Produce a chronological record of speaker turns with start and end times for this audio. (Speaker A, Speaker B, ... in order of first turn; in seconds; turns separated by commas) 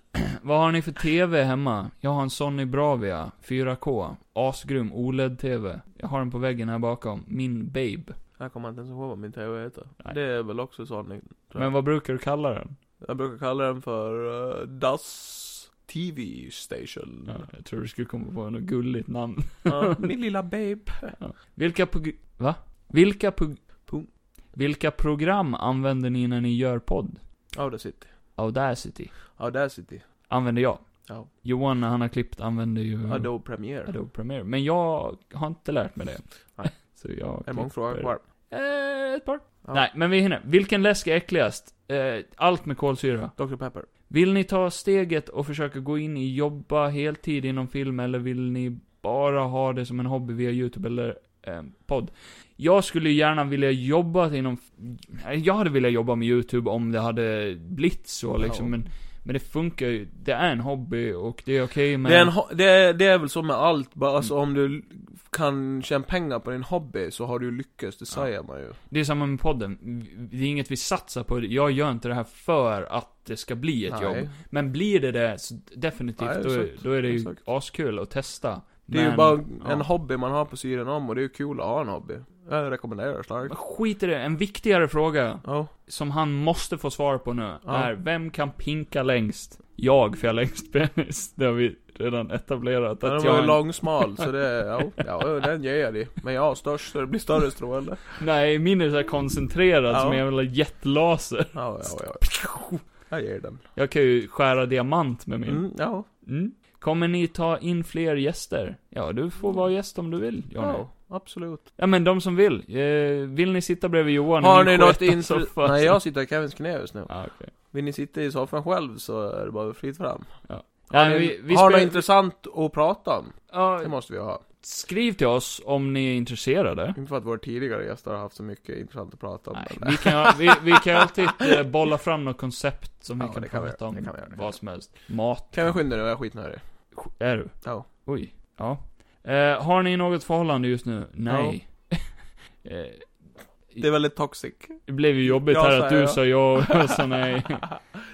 Speaker A: 0.4-8.2, Speaker B: 8.4-11.7, Speaker A: 11.6-12.8, Speaker B: 13.0-17.4, Speaker A: 17.3-20.0, Speaker B: 19.6-21.2, Speaker A: 21.2-23.9, Speaker A: 24.5-27.2, Speaker B: 27.5-28.1, Speaker A: 28.4-29.2, Speaker B: 29.4-30.1, Speaker A: 30.3-43.4, Speaker B: 33.1-33.9, Speaker B: 36.6-38.2, Speaker B: 43.4-43.9, Speaker A: 44.1-62.3, Speaker B: 58.4-58.7, Speaker B: 62.0-68.8, Speaker A: 68.9-79.9, Speaker B: 73.9-74.3, Speaker B: 76.2-77.4, Speaker B: 78.9-83.6, Speaker A: 83.5-94.2, Speaker B: 85.4-85.7, Speaker B: 87.7-87.9, Speaker B: 93.0-98.2, Speaker A: 98.2-102.9, Speaker B: 99.9-100.2, Speaker B: 101.5-103.6, Speaker A: 103.8-111.1, Speaker B: 105.5-106.1, Speaker B: 110.6-111.7, Speaker A: 111.8-116.0, Speaker B: 114.4-124.4, Speaker A: 117.1-117.5, Speaker A: 120.5-122.0, Speaker A: 123.5-124.0, Speaker A: 124.6-127.0, Speaker B: 127.0-131.1, Speaker A: 129.5-135.8, Speaker B: 133.2-134.9, Speaker B: 135.5-136.6, Speaker A: 136.9-144.1, Speaker B: 141.3-141.6, Speaker B: 143.8-147.0, Speaker A: 144.9-147.7